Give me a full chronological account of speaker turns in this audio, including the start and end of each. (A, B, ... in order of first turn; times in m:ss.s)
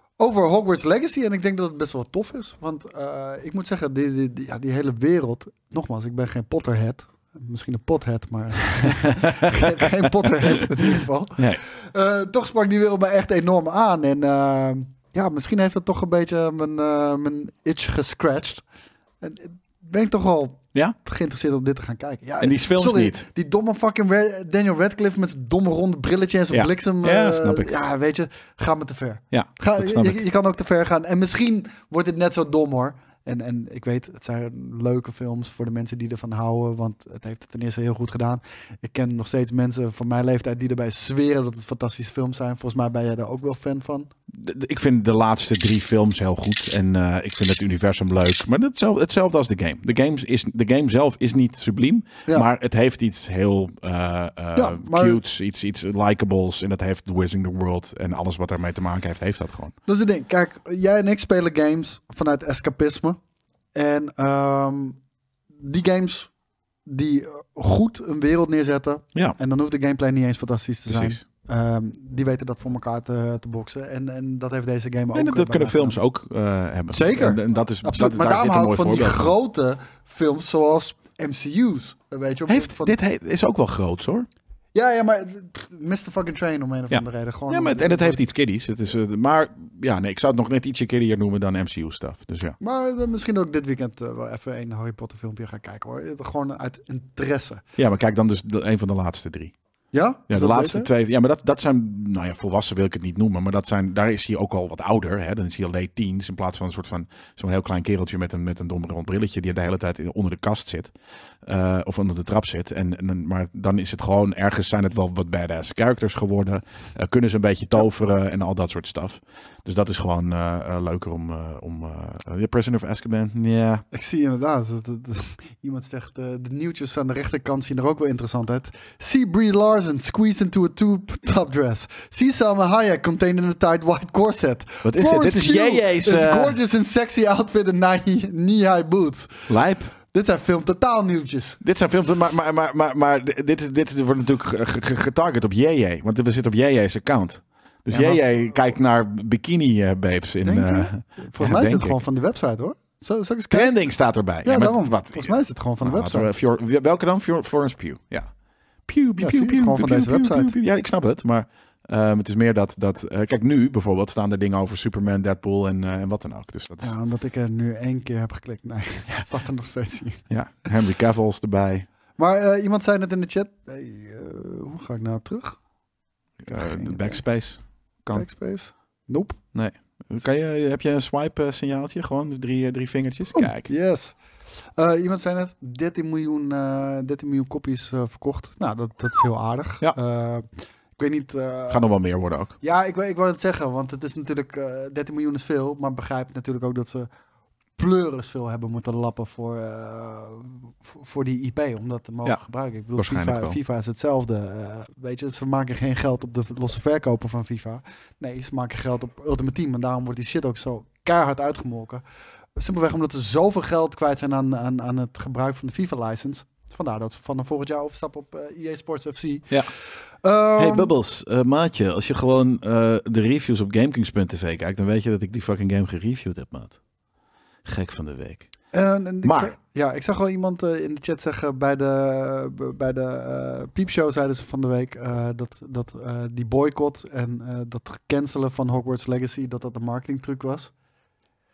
0:00.2-0:18.6 A
0:08.8-0:11.6 B
0:19.2-0:44.1 A
0:22.4-0:23.2 B
0:26.5-0:27.7 B
0:29.3-0:30.2 B
0:44.3-0:59.7 B
0:54.5-0:55.2 A
0:59.9-1:03.2 A
1:03.7-1:05.0 A
1:05.6-1:06.3 A
1:06.8-1:16.0 A
1:10.9-1:11.2 B
1:15.1-1:19.3 B
1:16.9-1:23.0 A
1:22.5-1:24.3 B
1:24.7-1:28.2 A
1:26.9-1:32.6 B
1:32.6-1:37.6 A
1:37.8-1:39.5 B
1:39.9-1:40.9 A
1:40.3-1:50.9 B
1:51.4-2:03.8 B
2:03.9-2:19.5 A
2:14.8-2:16.6 B
2:19.5-2:19.9 B
2:20.1-2:21.6 A
2:21.6-2:32.0 B
2:27.9-2:28.2 A
2:30.4-2:33.8 A
2:33.5-2:38.3 B
2:34.4-2:36.3 A
2:38.8-2:46.9 B
2:39.2-2:40.5 A
2:46.8-2:50.3 A
2:50.3-2:51.9 B
2:52.2-2:55.6 A
2:56.4-2:58.2 B
2:56.5-2:57.2 A
2:58.1-2:59.4 A
2:59.5-3:03.7 B
3:03.3-3:04.2 A
3:04.8-3:10.4 A
3:11.0-3:11.9 A
3:11.7-3:12.6 B
3:12.6-3:17.1 A
3:17.8-3:32.0 A
3:23.0-3:23.6 B
3:32.6-3:39.7 A
3:40.2-3:40.9 A
3:40.6-3:46.8 B
3:47.6-3:48.5 B
3:48.7-4:00.7 A
3:49.2-3:49.5 B